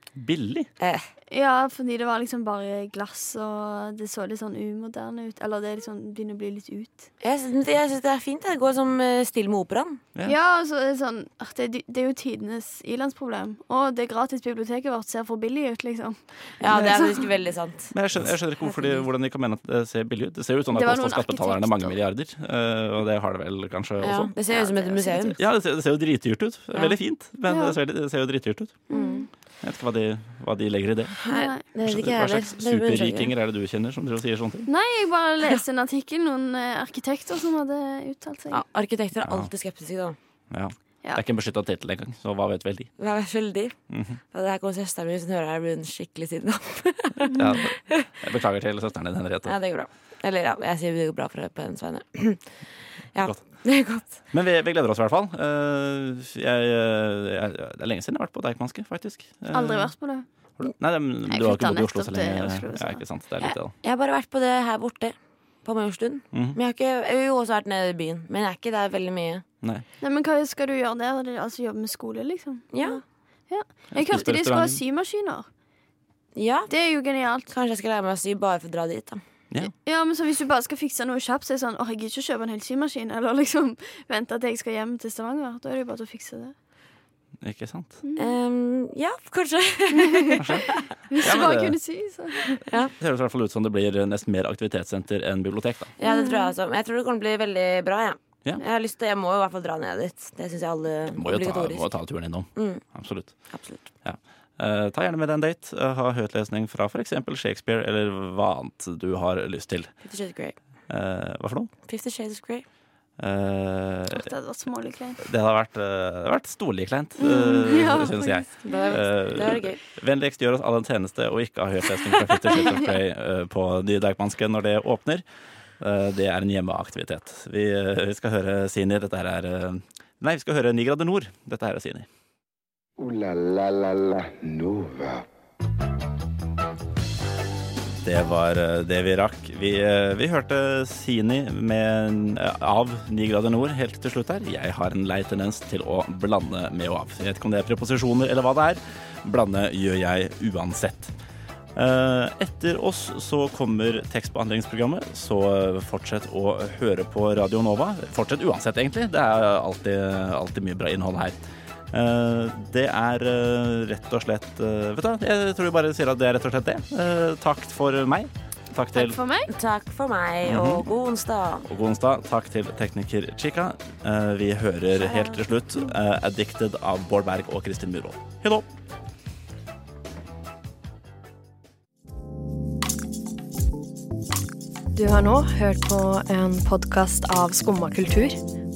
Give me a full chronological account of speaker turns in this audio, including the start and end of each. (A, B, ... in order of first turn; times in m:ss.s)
0:00.2-0:00.7 A
0:00.8-0:01.0 B
0:01.3-0:07.1 C
0:07.2-0:10.0 B
0:10.2-0:17.2 C
0:16.6-0:19.1 B
0:17.9-0:24.3 A
0:20.7-0:22.0 C
0:24.0-0:25.4 B
0:24.5-0:25.4 C
0:25.4-0:28.8 A
0:27.5-0:27.8 C
0:28.9-0:29.3 C
0:28.9-0:29.3 B
0:29.6-0:31.2 A
0:31.2-0:33.3 B
0:31.3-0:31.6 C
0:31.8-0:34.7 A
0:34.7-0:38.6 C
0:38.5-0:40.2 B
0:39.2-0:39.5 A
0:40.5-0:42.9 A
0:43.0-0:43.7 B
0:43.9-0:44.2 A
0:44.3-0:48.0 B
0:47.3-0:49.5 A
0:49.4-0:52.5 B
0:53.1-0:54.2 B
0:54.3-0:59.9 A
0:59.5-1:00.2 C
1:00.6-1:03.7 A
1:01.3-1:03.0 C
1:03.4-1:09.4 B
1:10.0-1:15.5 C
1:12.7-1:13.0 B
1:13.9-1:14.8 A
1:16.3-1:16.7 B
1:16.7-1:17.5 C
1:17.5-1:19.2 B
1:19.7-1:26.5 C
1:27.4-1:27.9 A
1:28.0-1:28.4 C
1:28.2-1:30.8 B
1:29.9-1:30.4 C
1:30.4-1:30.7 A
1:31.1-1:32.5 C
1:31.2-1:31.8 A
1:32.6-1:32.9 B
1:33.0-1:35.9 A
1:36.0-1:41.9 B
1:36.0-1:36.5 C
1:41.2-1:43.3 A
1:42.6-1:42.8 B
1:43.5-1:43.9 B
1:44.0-1:49.9 A
1:50.0-1:50.6 B
1:50.9-1:51.7 A
1:51.9-1:52.6 B
1:53.2-1:54.3 A
1:54.1-1:55.2 C
1:55.2-2:05.2 A
1:57.2-1:58.9 C
1:58.6-1:59.8 B
2:05.8-2:12.1 A
2:13.0-2:15.2 D
2:18.0-2:31.1 A
2:31.8-2:41.4 A
2:41.9-2:49.2 A
2:48.9-2:49.5 C
2:49.5-2:51.7 B
2:50.4-2:50.8 A
2:51.6-2:58.7 A
2:55.0-2:55.4 C
3:04.9-3:08.4 E